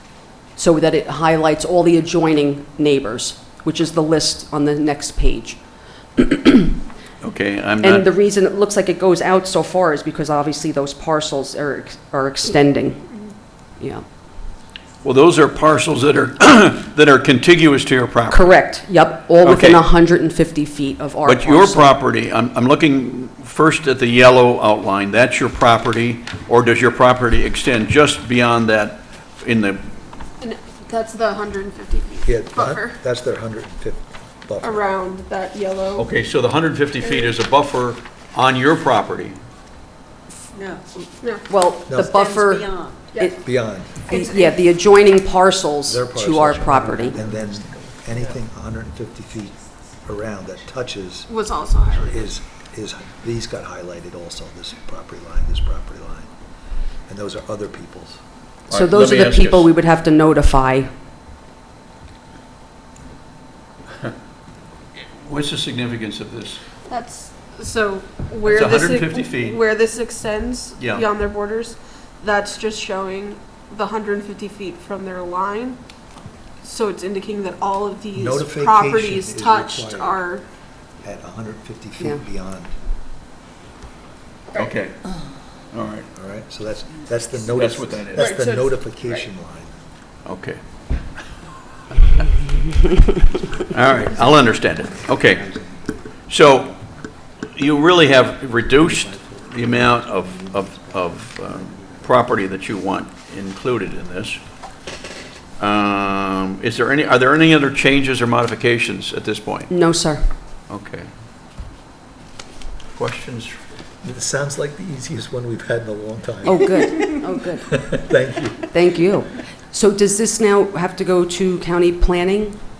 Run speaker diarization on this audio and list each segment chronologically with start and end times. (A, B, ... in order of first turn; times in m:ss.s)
0:00.6-0:05.6 A
0:06.2-0:06.8 A
0:07.2-0:08.0 B
0:07.8-0:13.1 A
0:13.8-0:14.0 A
0:15.0-0:18.6 B
0:18.3-0:22.0 A
0:19.4-0:19.8 B
0:21.2-0:30.0 B
0:30.4-0:33.0 C
0:32.2-0:34.8 D
0:34.6-0:36.1 C
0:35.9-0:39.4 B
0:37.0-0:37.3 C
0:40.5-0:40.8 E
0:41.5-0:43.4 A
0:41.9-0:42.2 D
0:42.0-0:43.1 E
0:43.4-0:44.0 D
0:44.1-0:44.6 E
0:44.1-0:47.2 A
0:45.8-0:49.5 D
0:47.0-0:48.2 E
0:50.0-0:51.3 D
0:51.3-0:52.3 C
0:51.9-0:56.3 D
0:57.1-0:58.2 D
0:58.7-0:59.7 B
0:58.7-1:00.9 A
1:05.2-1:06.6 B
1:06.9-1:15.8 C
1:08.4-1:09.6 B
1:10.8-1:11.1 B
1:16.6-1:20.4 C
1:18.2-1:20.2 D
1:21.0-1:22.7 D
1:24.5-1:25.0 B
1:25.7-1:26.1 B
1:26.1-1:29.7 D
1:27.5-1:28.3 B
1:28.2-1:29.2 C
1:30.2-1:30.6 B
1:33.6-1:35.5 B
1:35.4-1:35.6 D
1:36.3-1:36.7 B
1:37.5-1:44.4 B
1:39.9-1:40.2 D
1:45.6-1:49.7 B
1:49.7-1:50.2 A
1:50.7-1:51.1 B
1:52.9-1:53.6 B
1:54.0-1:58.7 D
1:56.4-1:57.7 A
1:58.7-2:02.6 A